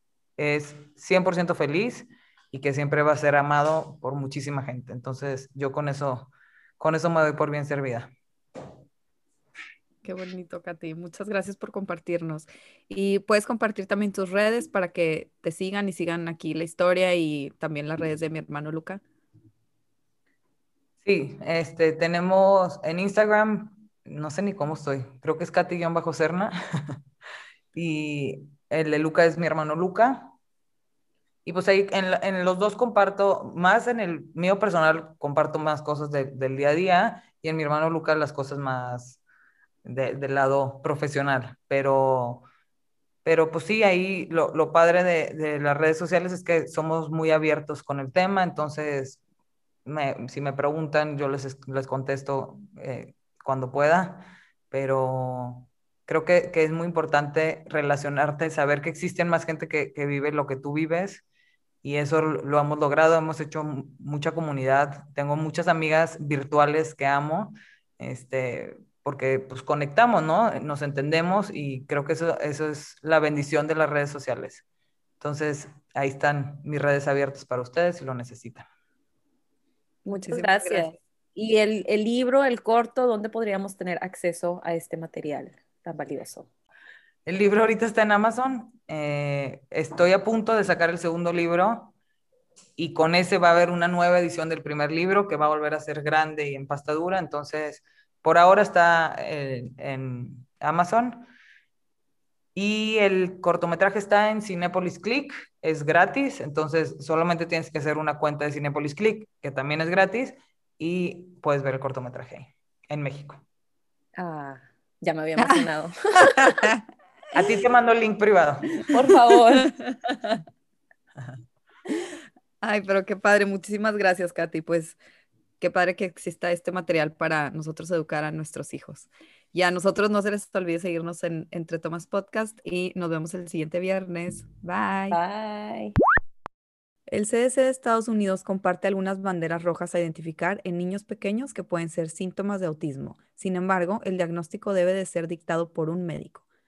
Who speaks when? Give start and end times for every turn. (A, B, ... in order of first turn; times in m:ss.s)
0:00.4-0:08.1 A
0:10.0-0:19.0 B
0:21.0-0:26.5 A
0:27.7-0:30.3 A
0:31.4-0:39.2 A
0:39.8-0:42.4 A
0:43.2-0:49.2 A
0:49.8-1:01.2 A
1:01.8-1:14.6 A
1:15.2-1:18.7 A
1:20.0-1:26.5 C
1:20.2-1:20.9 B
1:27.2-1:31.9 A
1:32.8-1:41.3 A
1:42.5-1:53.4 A
1:54.1-1:56.7 C
1:55.4-1:55.6 B
1:56.2-1:56.8 B
1:57.3-1:58.9 A
1:58.8-1:59.7 C
1:59.6-2:00.4 B
2:02.6-2:05.0 B
2:05.6-2:15.2 B
2:15.1-2:16.0 C
2:17.1-2:26.4 B